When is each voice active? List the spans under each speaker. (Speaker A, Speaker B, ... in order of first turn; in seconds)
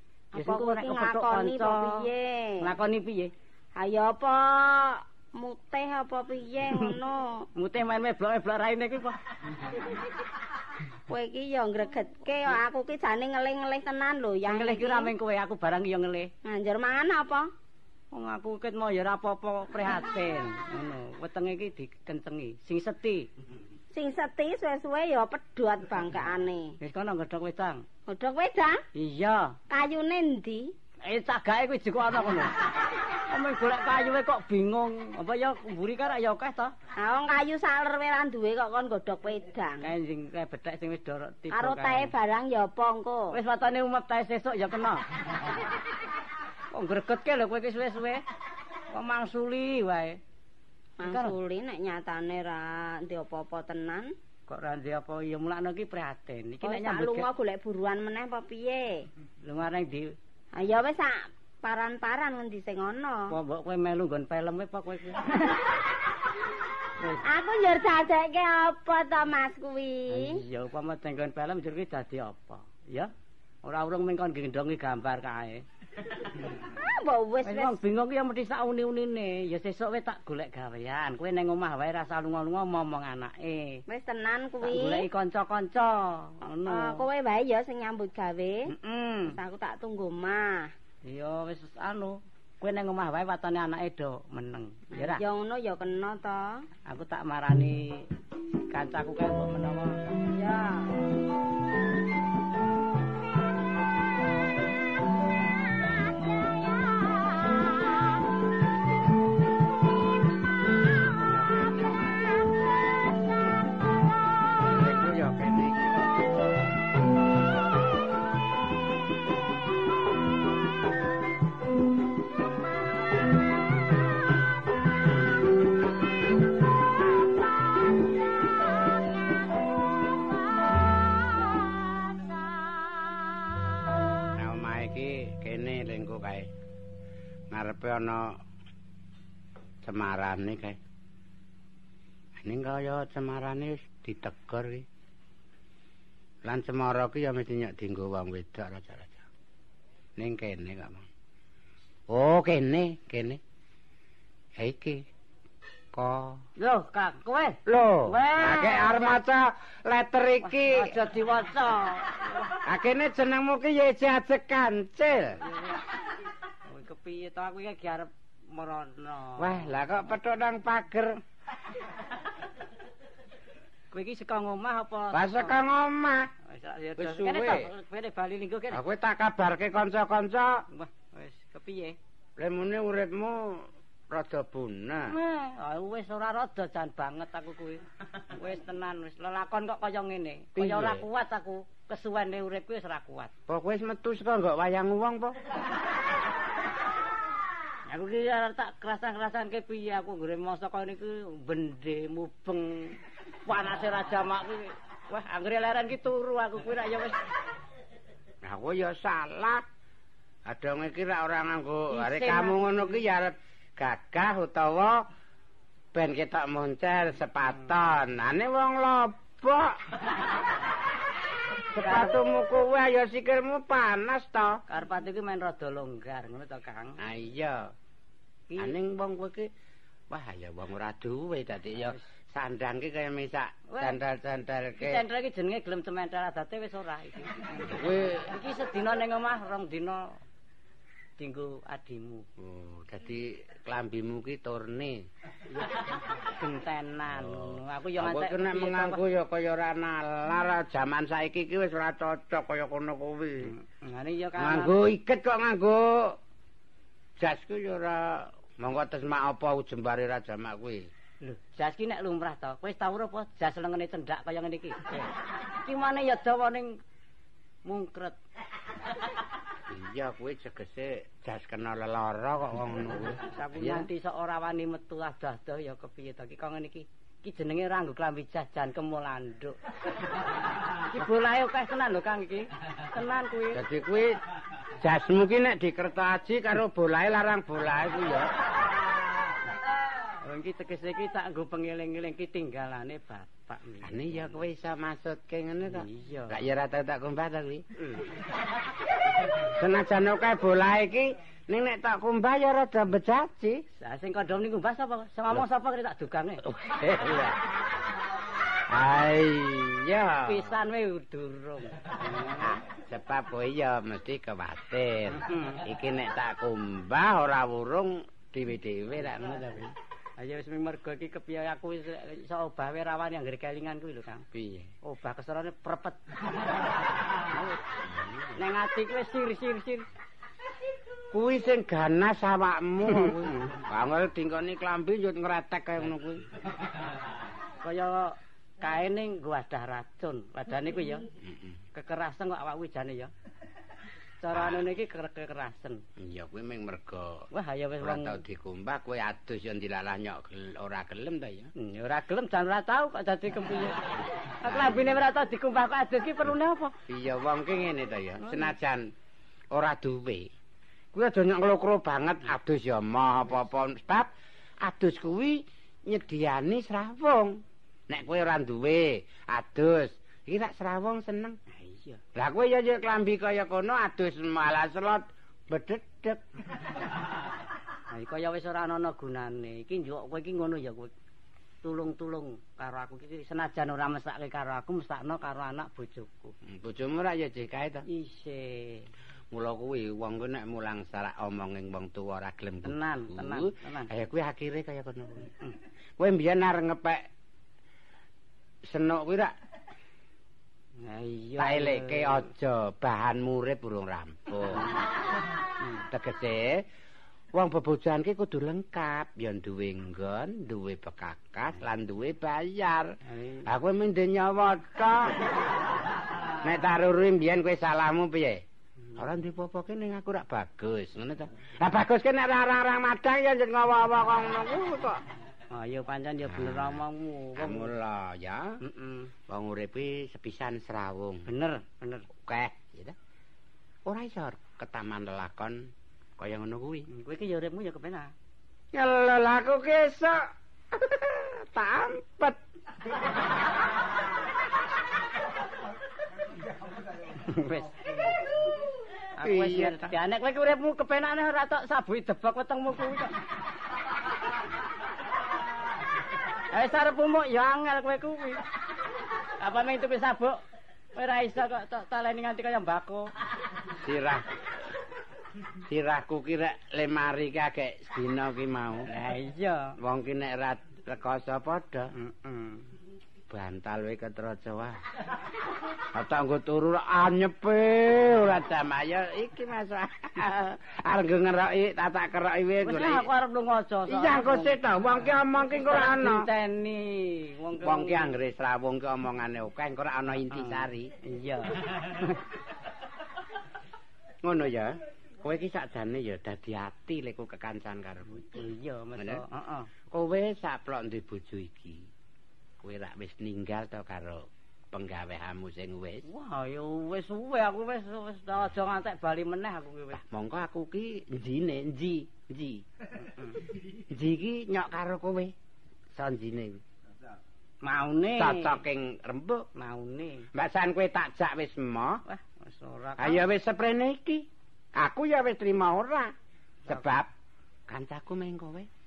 Speaker A: 0.3-2.1, 2.6-3.3, 7.5-9.2, 14.5-16.3, 18.1-23.3, 26.8-27.8, 28.9-29.6, 31.0-32.5, 33.1-36.7, 39.8-42.1, 43.3-45.0, 46.7-48.2, 48.9-50.2, 51.0-51.3, 54.5-57.3, 59.4-60.1, 63.3-65.6, 67.0-67.2, 70.1-73.1, 73.6-75.6, 77.4-83.8, 84.6-87.0, 88.7-89.4, 91.0-95.2, 96.8-98.1, 98.6-100.0, 156.6-159.2, 160.4-162.6, 165.4-165.8, 166.7-169.7, 173.9-175.6, 176.4-178.8, 180.7-182.0, 185.1-193.3, 197.9-207.2, 211.9-213.0, 221.8-222.2, 224.7-227.0, 228.5-228.7, 233.7-234.0, 234.8-240.2, 241.2-242.2, 245.5-249.0, 253.4-254.8, 261.2-266.8, 267.6-268.2, 273.2-279.6, 280.7-283.6, 290.2-294.4, 295.6-296.4, 303.8-306.4, 310.2-312.6, 315.1-315.6, 319.2-319.6, 320.2-324.2, 324.8-326.0, 328.4-329.9, 337.6-341.1, 341.7-343.1, 344.2-345.8, 347.3-348.2, 351.6-356.8, 371.5-372.0, 377.9-380.9, 381.6-386.3, 387.9-388.9, 392.6-393.9, 400.8-402.3, 405.6-405.9, 413.0-413.5, 425.5-427.7, 428.6-429.1, 431.2-432.1, 436.9-438.1, 447.1-448.2, 449.1-453.2, 456.5-458.4, 459.4-460.4, 460.9-463.1, 468.9-469.8, 471.9-472.7, 482.6-484.6, 485.5-488.1, 490.3-492.2, 498.2-499.7, 506.0-510.0, 513.0-513.4, 517.6-518.6, 519.5-520.3, 522.0-523.2, 526.6-526.9
Speaker B: 0.3-2.7, 3.8-7.5, 11.1-15.1, 16.4-17.5, 23.9-26.8, 28.1-28.8, 29.7-30.7, 37.0-39.9, 41.5-43.4, 51.0-54.1, 56.6-59.1, 60.5-63.3, 67.2-70.4, 76.7-77.8, 83.9-85.1, 86.6-88.7, 89.3-90.7, 95.0-96.7, 100.3-100.9
Speaker C: 111.2-112.3, 114.6-116.0, 134.3-136.5, 137.5-138.4, 139.8-140.8, 142.4-144.8, 146.4-149.2, 150.2-151.1, 152.1-153.4, 154.6-155.1, 155.9-156.4, 157.7-161.0, 162.6-165.4, 169.4-171.2, 175.1-176.3, 177.0-177.7, 178.7-180.6, 182.4-185.1, 190.6-191.0, 193.5-195.3, 208.4-209.6, 210.4-215.1, 215.9-219.9, 221.7-224.6, 227.0-227.7, 228.6-229.5, 230.1-235.0, 237.6-238.3, 242.4-245.0, 247.2-253.5, 254.4-256.2, 257.2-260.9, 269.7-273.9, 283.5-284.2, 284.8-288.3, 293.8-297.7, 299.2-303.6, 306.4-307.5, 308.7-310.5, 312.4-319.7, 324.3-324.7, 327.7-328.4, 331.1-336.2, 341.2-341.6, 344.3-344.6, 346.0-347.3, 347.8-351.5, 354.4-355.0, 356.9-358.9, 359.5-360.3, 360.9-371.4, 372.1-376.2, 386.4-387.9, 389.3-395.3, 396.0-397.0, 398.6-399.3, 401.4-404.7, 405.9-406.6, 407.3-415.3, 416.4-418.4, 418.9-425.0, 426.3-426.8, 427.4-428.6, 429.3-431.3, 432.2-432.9, 433.8-436.9, 438.7-442.4, 449.2-449.9, 463.7-464.4, 465.6-468.9, 469.8-471.9, 473.3-474.8, 475.8-483.1, 483.9-486.3, 487.6-490.9, 494.2-498.4, 499.0-499.2, 499.9-501.9, 502.6-506.1, 509.9-512.6, 513.7-515.3, 515.9-516.6, 518.1-519.5, 520.3-522.0, 523.0-526.1, 526.7-527.1, 527.7-528.7